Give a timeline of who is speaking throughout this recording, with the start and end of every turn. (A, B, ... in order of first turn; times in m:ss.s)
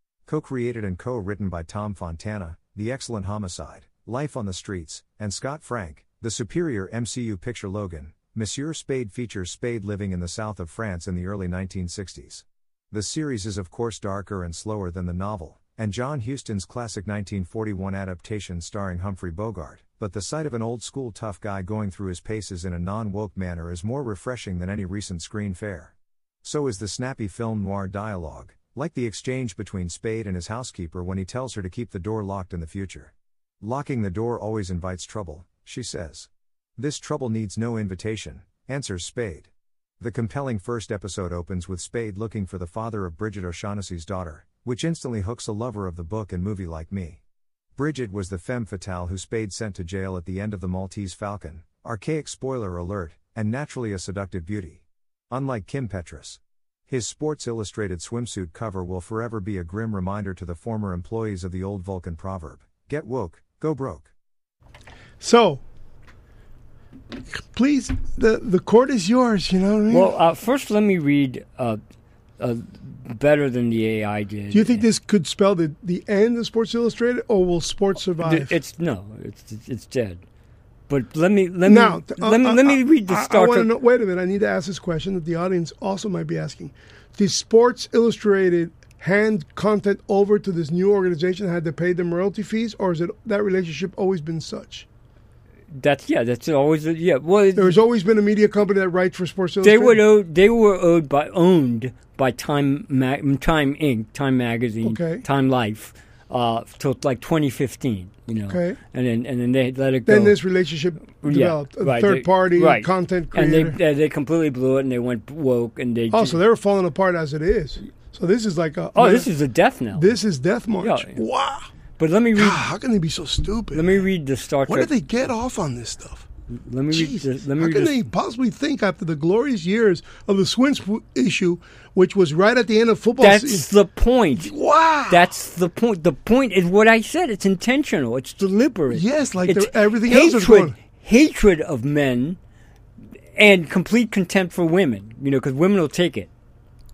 0:00.3-0:39.5 A
0:40.0-0:47.2 A
0:47.8-1:04.1 A
1:05.2-1:05.6 B
1:07.3-1:10.1 B
1:09.9-1:11.8 C
1:12.4-1:14.8 C
1:14.5-1:18.5 B
1:18.2-1:20.2 C
1:20.9-1:23.7 C
1:21.6-1:34.9 B
1:35.7-1:37.8 C
1:37.6-1:40.0 B
1:39.6-1:50.4 C
1:44.8-1:45.2 B
1:48.5-1:48.8 B
1:50.1-1:53.8 B
1:51.2-1:56.4 C
1:56.1-1:59.3 B
1:59.0-2:00.2 C
1:59.9-2:01.7 B
2:00.8-2:01.2 C
2:02.0-2:02.7 C
2:02.4-2:04.0 B
2:03.7-2:04.9 C
2:04.7-2:06.2 B
2:06.6-2:07.9 C
2:06.9-2:13.7 B
2:13.2-2:14.5 C
2:14.4-2:15.3 B
2:15.1-2:22.4 C
2:18.9-2:20.7 B
2:23.4-2:26.3 C